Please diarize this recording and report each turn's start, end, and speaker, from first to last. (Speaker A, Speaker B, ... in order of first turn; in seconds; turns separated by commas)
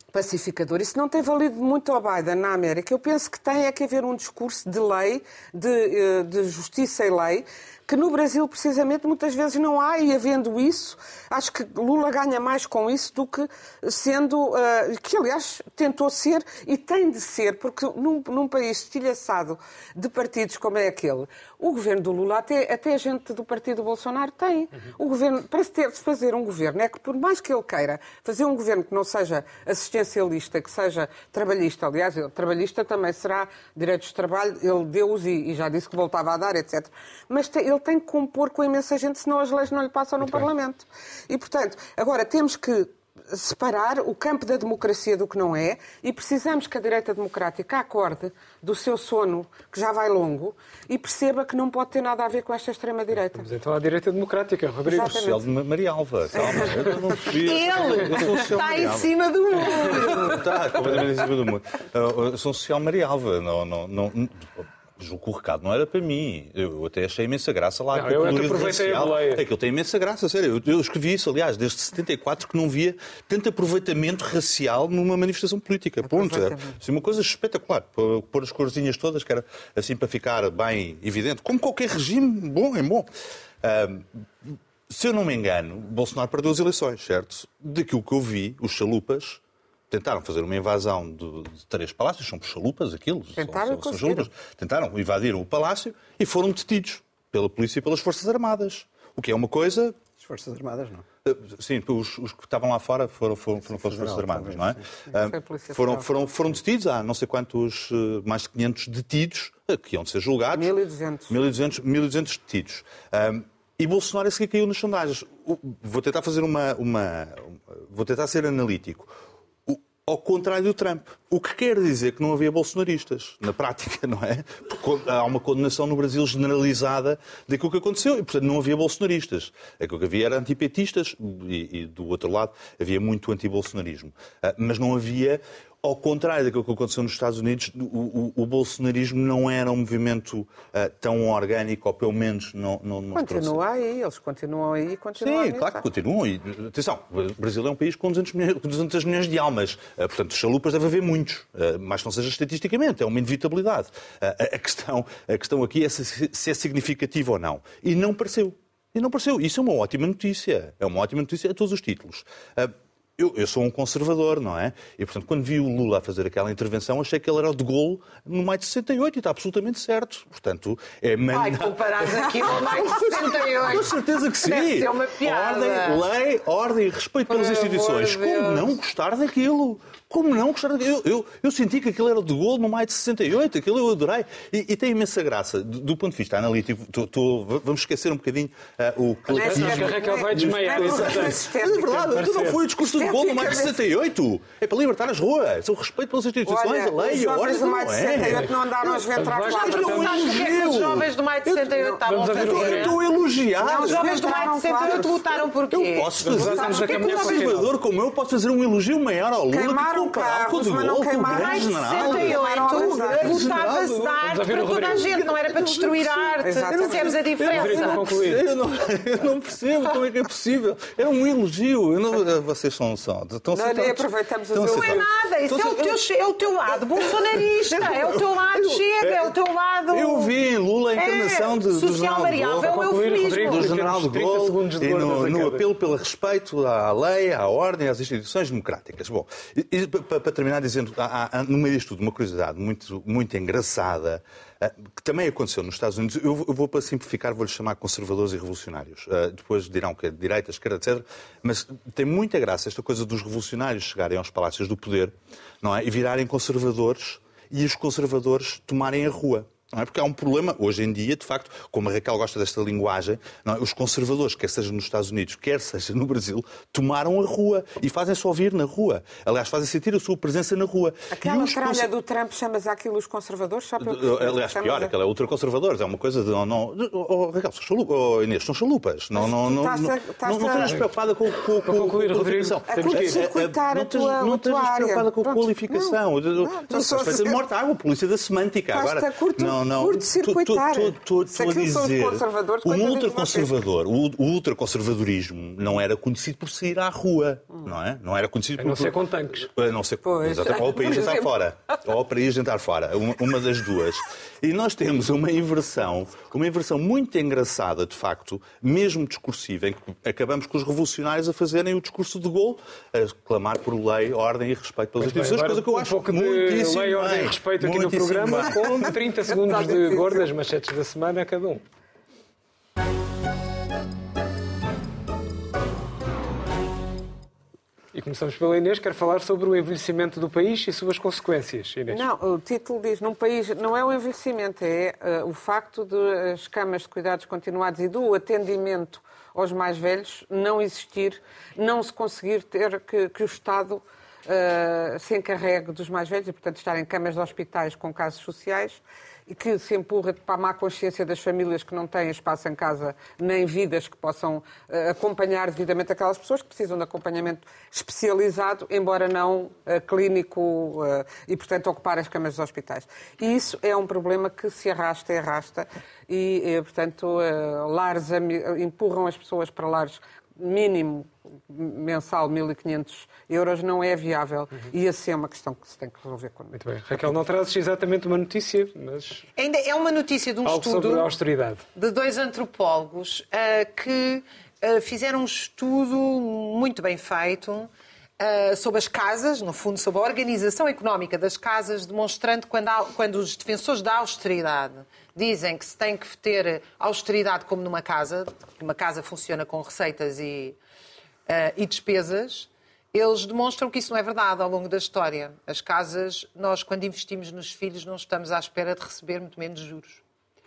Speaker A: 0.1-53.5, Speaker B: 53.4-55.2, Speaker A: 54.9-55.4, Speaker C: 55.0-83.1, Speaker A: 56.4-56.8, Speaker D: 57.3-60.5, Speaker B: 67.9-69.5, Speaker A: 76.0-76.8, Speaker C: 83.6-100.0, Speaker A: 93.4-94.3, Speaker E: 100.2-101.0, Speaker C: 101.2-110.7, Speaker E: 103.6-104.8, Speaker A: 105.1-106.3, Speaker A: 110.5-111.4, Speaker C: 111.3-119.1, Speaker C: 119.7-143.6, Speaker A: 143.1-145.8, Speaker C: 145.2-204.3, Speaker D: 171.3-176.1, Speaker D: 177.3-178.8, Speaker A: 189.3-193.8, Speaker B: 189.4-191.4, Speaker B: 192.1-192.6, Speaker A: 196.5-200.3, Speaker B: 199.2-200.3, Speaker D: 199.6-203.0, Speaker B: 202.0-203.0, Speaker A: 202.4-202.9, Speaker A: 203.6-205.2, Speaker D: 203.8-206.9, Speaker C: 205.7-226.0, Speaker B: 206.2-207.7, Speaker A: 206.5-207.4, Speaker A: 209.5-213.6, Speaker D: 211.3-218.1, Speaker B: 214.2-215.1, Speaker A: 216.4-217.2, Speaker B: 217.5-218.4, Speaker A: 223.5-225.0, Speaker D: 224.7-230.3, Speaker C: 226.8-229.2, Speaker C: 229.9-232.7, Speaker D: 230.9-233.7, Speaker B: 232.6-235.7, Speaker C: 233.5-271.9, Speaker A: 271.1-274.9, Speaker C: 273.8-319.0, Speaker A: 279.1-280.7, Speaker B: 281.6-283.3, Speaker A: 282.7-287.4, Speaker A: 288.7-293.6, Speaker B: 298.6-299.5, Speaker A: 300.0-301.3, Speaker B: 315.0-321.6, Speaker A: 319.3-320.3, Speaker B: 327.9-332.1, Speaker A: 331.9-376.6, Speaker B: 376.6-379.3, Speaker D: 379.4-381.1, Speaker B: 380.4-381.6, Speaker D: 381.8-400.6, Speaker D: 401.3-410.0